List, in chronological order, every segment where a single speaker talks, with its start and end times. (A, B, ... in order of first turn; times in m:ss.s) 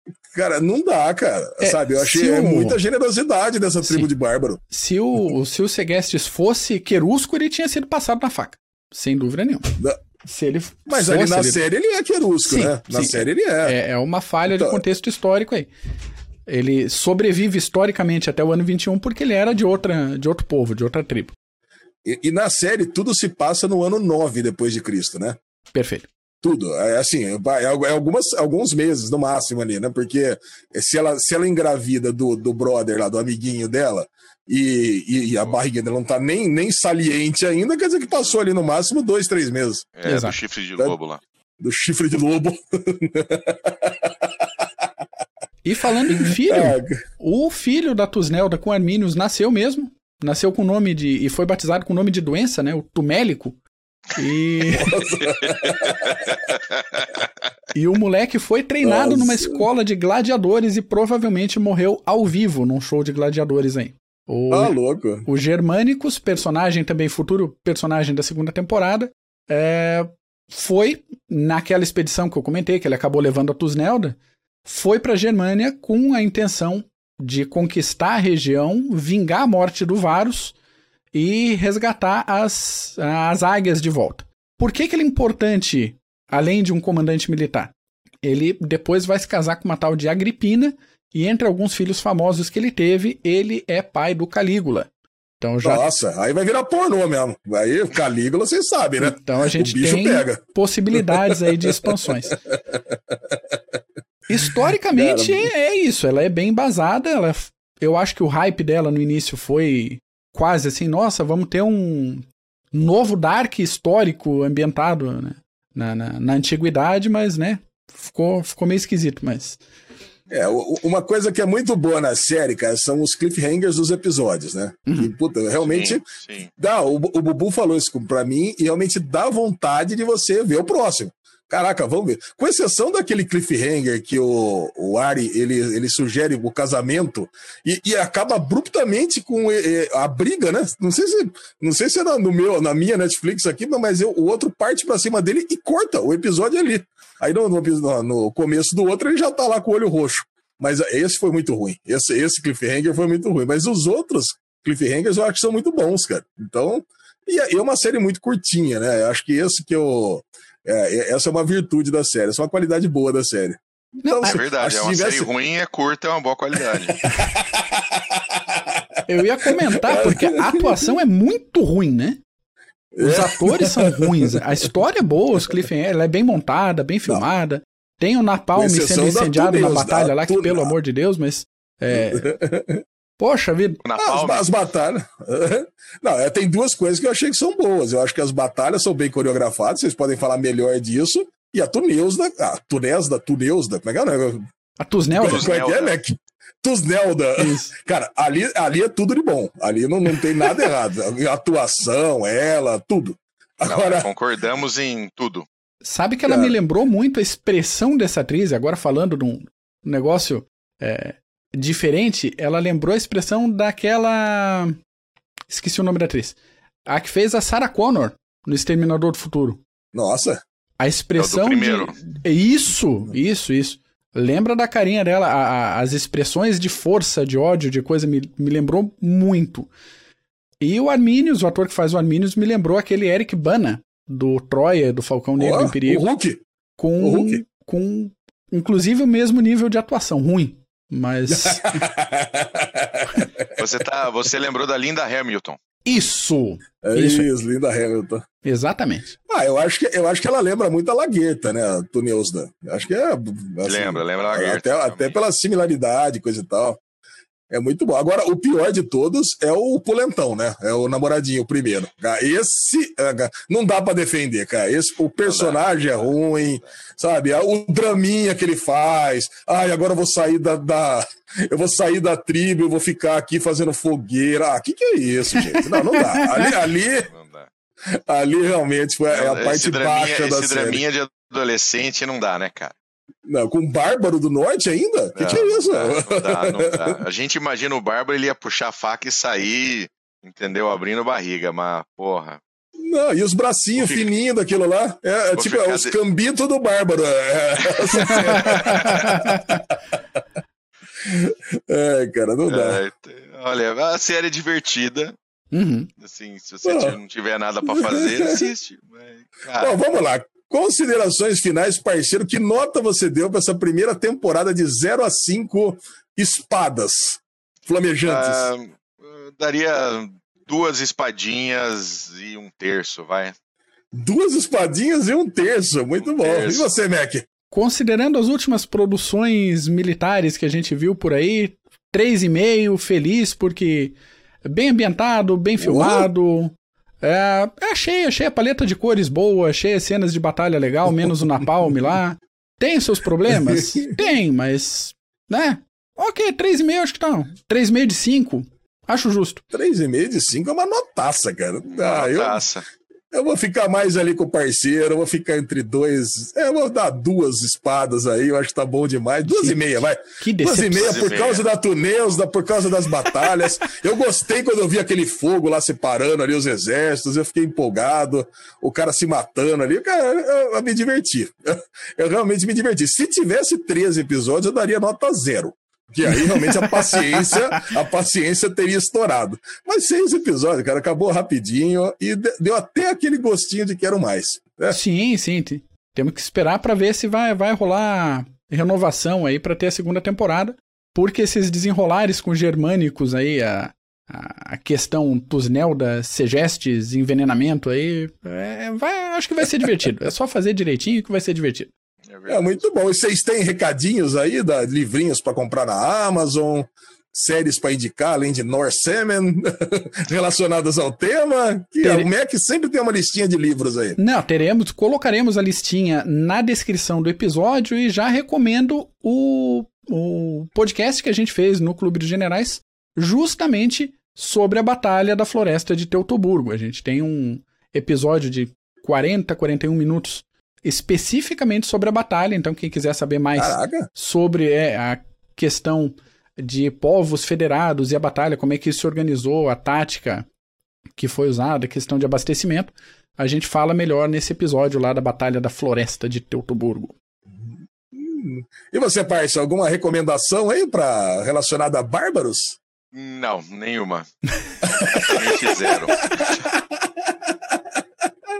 0:00.3-0:04.6 A
0:01.6-0:02.8 B
0:03.8-0:04.1 B
0:04.7-0:11.6 B
0:10.9-0:13.8 A
0:12.4-0:15.7 B
0:14.5-0:14.8 A
0:16.4-0:21.4 B
0:22.0-0:25.4 A
0:25.7-0:26.1 B
0:26.4-0:39.9 A
0:40.0-0:41.2 C
0:40.0-0:40.4 B
0:41.6-0:44.6 A
0:45.6-0:53.6 B
0:46.1-0:47.0 A
0:54.1-0:55.0 B
0:54.7-0:56.4 A
0:55.4-0:57.2 C
0:57.7-1:20.6 B
0:58.8-0:59.7 A
1:04.5-1:05.2 A
1:21.1-1:35.9 B
1:35.6-1:40.4 A
1:39.0-1:42.4 B
1:40.9-1:43.5 A
1:44.3-1:59.6 B
1:44.4-1:45.5 A
2:00.3-2:06.0 A
2:05.6-2:06.5 C
2:06.6-2:45.3 A
2:44.0-2:44.4 B
2:44.2-2:47.0 C
2:46.6-2:48.8 A
2:49.1-2:52.2 B
2:49.4-2:50.9 A
2:52.9-2:54.4 A
2:53.0-3:02.3 B
2:58.6-3:00.7 A
3:01.9-3:02.8 A
3:03.2-3:03.8 B
3:03.8-3:04.6 C
3:04.0-3:14.4 A
3:14.8-3:15.5 B
3:15.2-3:15.9 C
3:15.2-3:24.1 A
3:17.4-3:17.7 B
3:23.6-3:25.5 C
3:25.8-3:34.8 B
3:26.2-3:26.6 A
3:35.5-3:36.4 B
3:36.9-3:39.6 B
3:39.9-3:40.4 A
3:40.8-3:49.7 B
3:41.2-3:42.0 C
3:50.6-3:56.0 B
3:55.4-3:56.4 A
3:56.8-4:01.9 B
3:57.0-3:57.4 A
4:01.3-4:03.7 A
4:03.6-4:05.6 C
4:05.8-4:07.3 B
4:06.8-4:08.2 A
4:08.4-4:09.2 B
4:09.3-4:16.8 A
4:13.6-4:15.2 C
4:17.5-4:37.1 A
4:25.2-4:26.7 C
4:35.4-4:36.5 B
4:37.1-4:37.5 C
4:37.9-4:40.8 A
4:39.1-4:42.7 C
4:43.2-4:47.0 A
4:45.2-4:52.4 C
4:52.8-4:59.8 A
4:53.8-4:54.1 C
4:55.4-4:56.0 C
4:57.6-4:59.1 C
4:57.9-4:59.6 B
5:01.0-5:02.8 A
5:02.5-5:05.2 C
5:05.5-5:05.9 B
5:06.0-5:09.8 C
5:06.6-5:07.0 A
5:07.6-5:08.4 A
5:09.6-5:18.5 A
5:18.0-5:23.4 C
5:23.9-5:27.2 A
5:26.0-5:26.7 C
5:27.5-5:33.9 B
5:34.4-5:49.4 B
5:35.6-5:36.1 A
5:43.3-5:43.9 A
5:49.5-5:52.4 A
5:51.7-5:52.6 C
5:53.1-6:24.8 A
5:59.2-5:59.6 B
6:00.2-6:01.0 B
6:00.7-6:01.4 C
6:16.4-6:17.4 B
6:24.7-6:41.7 B
6:42.1-6:42.6 C
6:42.3-6:54.0 A
6:51.8-6:52.1 B
6:54.0-7:20.3 B
7:13.4-7:13.9 A
7:21.0-7:27.0 B
7:27.4-7:32.6 A
7:32.9-7:34.1 C
7:34.6-7:37.8 A
7:35.0-7:36.4 C